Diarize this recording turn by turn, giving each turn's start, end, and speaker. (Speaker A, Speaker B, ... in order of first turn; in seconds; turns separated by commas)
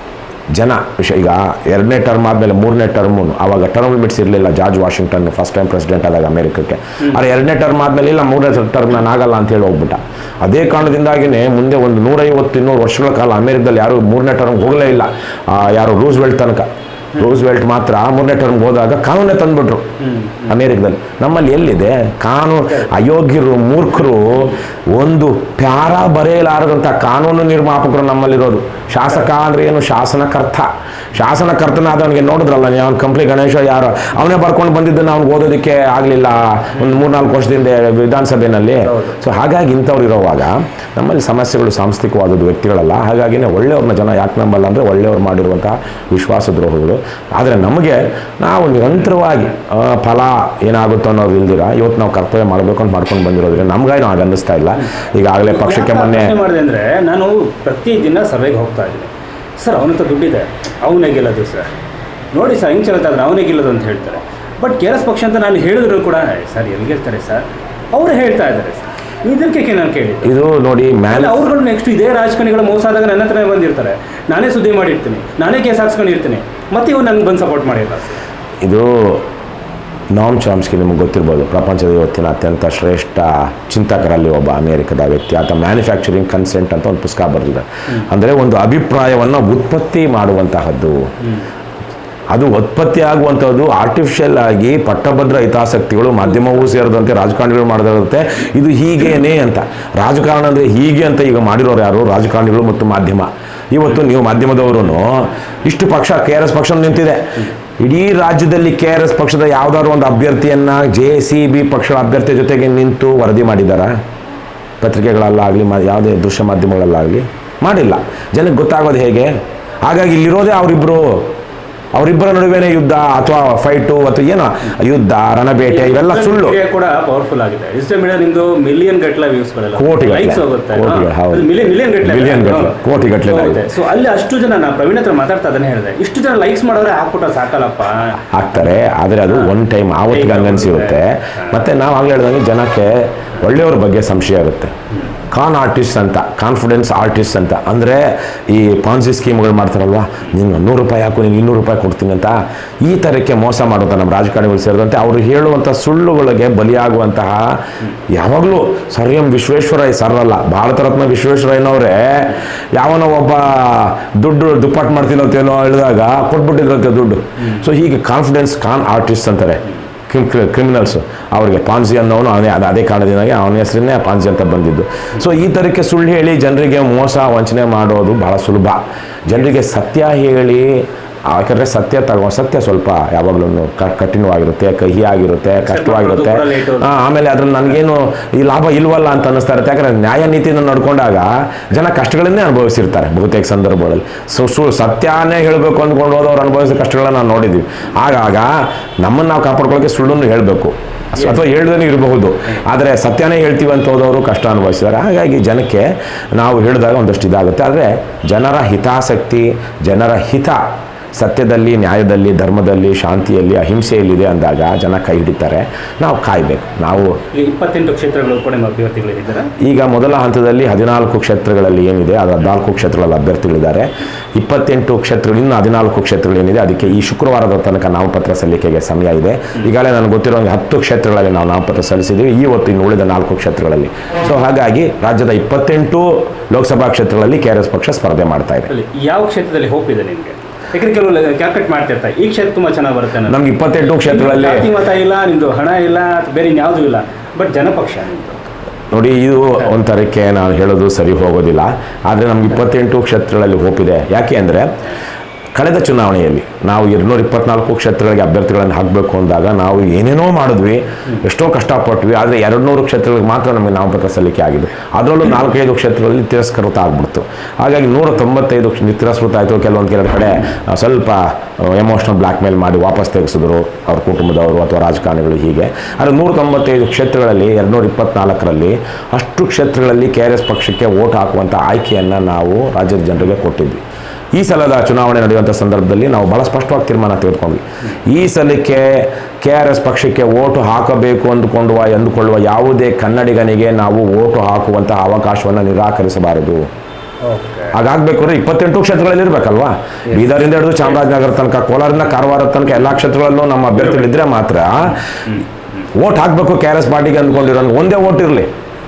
Speaker A: 0.6-19.9, Speaker B: 20.0-20.6, Speaker A: 20.5-56.4, Speaker B: 38.9-39.2, Speaker B: 55.5-61.7, Speaker B: 62.3-70.3, Speaker A: 70.2-71.5, Speaker B: 71.1-78.2, Speaker A: 78.6-79.3, Speaker A: 80.1-91.0, Speaker A: 92.3-113.9, Speaker A: 114.8-119.3, Speaker A: 119.8-121.3, Speaker A: 122.0-126.6, Speaker B: 125.7-138.7, Speaker A: 129.8-133.6, Speaker A: 138.3-144.7, Speaker B: 140.1-141.0, Speaker A: 145.3-210.6, Speaker B: 185.6-187.0, Speaker A: 211.2-217.2, Speaker B: 217.3-219.5, Speaker A: 219.6-238.7, Speaker B: 238.7-243.4, Speaker A: 243.2-244.7, Speaker B: 243.9-248.5, Speaker A: 248.9-254.8, Speaker A: 255.6-283.8, Speaker A: 284.4-296.6, Speaker B: 297.2-297.7, Speaker A: 297.7-305.0, Speaker A: 305.9-308.5